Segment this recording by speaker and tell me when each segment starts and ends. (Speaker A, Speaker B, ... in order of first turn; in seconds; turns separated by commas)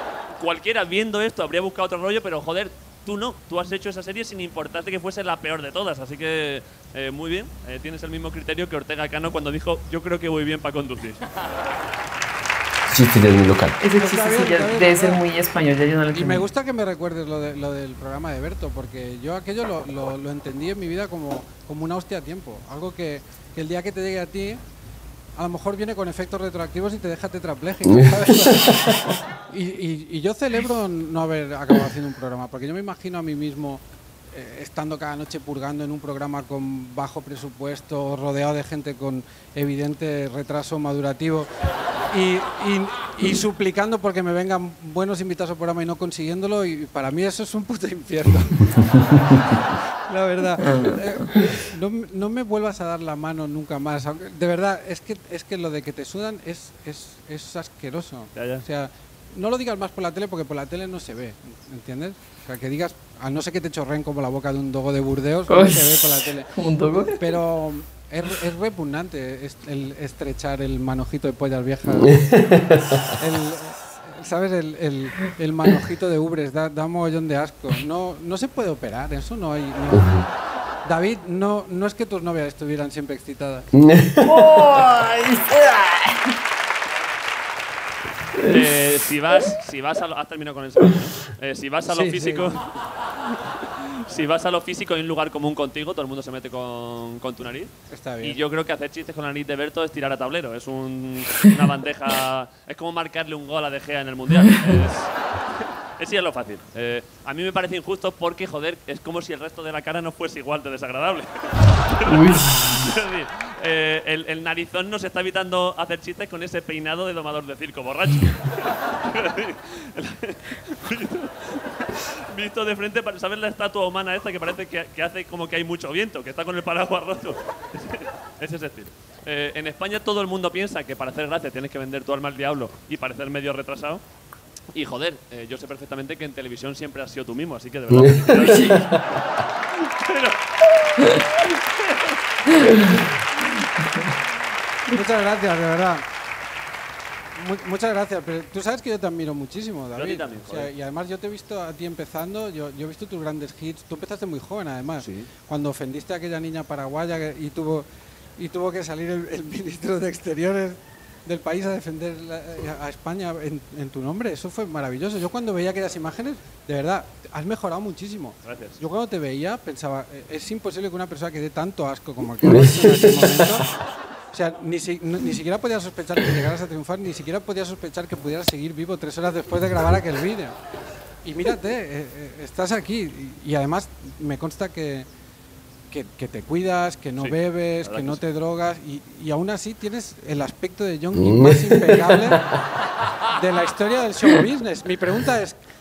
Speaker A: 0.4-11.2, Speaker B: 12.9-13.8, Speaker C: 13.8-16.4, Speaker D: 14.0-15.2, Speaker D: 16.1-24.6, Speaker D: 25.4-41.5, Speaker B: 27.9-29.0, Speaker D: 42.1-66.5, Speaker C: 50.6-51.3, Speaker A: 58.4-58.6, Speaker C: 65.5-67.3, Speaker D: 67.1-72.3, Speaker B: 72.0-73.2, Speaker D: 73.1-80.2, Speaker B: 79.9-80.2, Speaker D: 80.8-83.7, Speaker B: 83.8-84.8, Speaker C: 84.2-86.3, Speaker B: 88.3-88.6, Speaker A: 88.5-92.7, Speaker D: 91.9-92.5, Speaker A: 94.1-105.2, Speaker D: 97.9-98.4, Speaker A: 106.0-134.0, Speaker C: 112.1-113.0, Speaker A: 134.7-143.1, Speaker B: 137.9-139.1, Speaker C: 138.3-138.8, Speaker C: 142.6-143.0, Speaker D: 144.9-146.1, Speaker D: 147.3-157.9, Speaker A: 149.9-150.7, Speaker A: 155.0-155.3, Speaker D: 158.4-173.7, Speaker A: 168.4-168.8, Speaker B: 172.4-173.6, Speaker D: 174.3-180.6, Speaker D: 181.2-185.1, Speaker D: 185.9-192.5, Speaker A: 187.2-188.2, Speaker B: 191.2-192.6, Speaker D: 193.3-195.6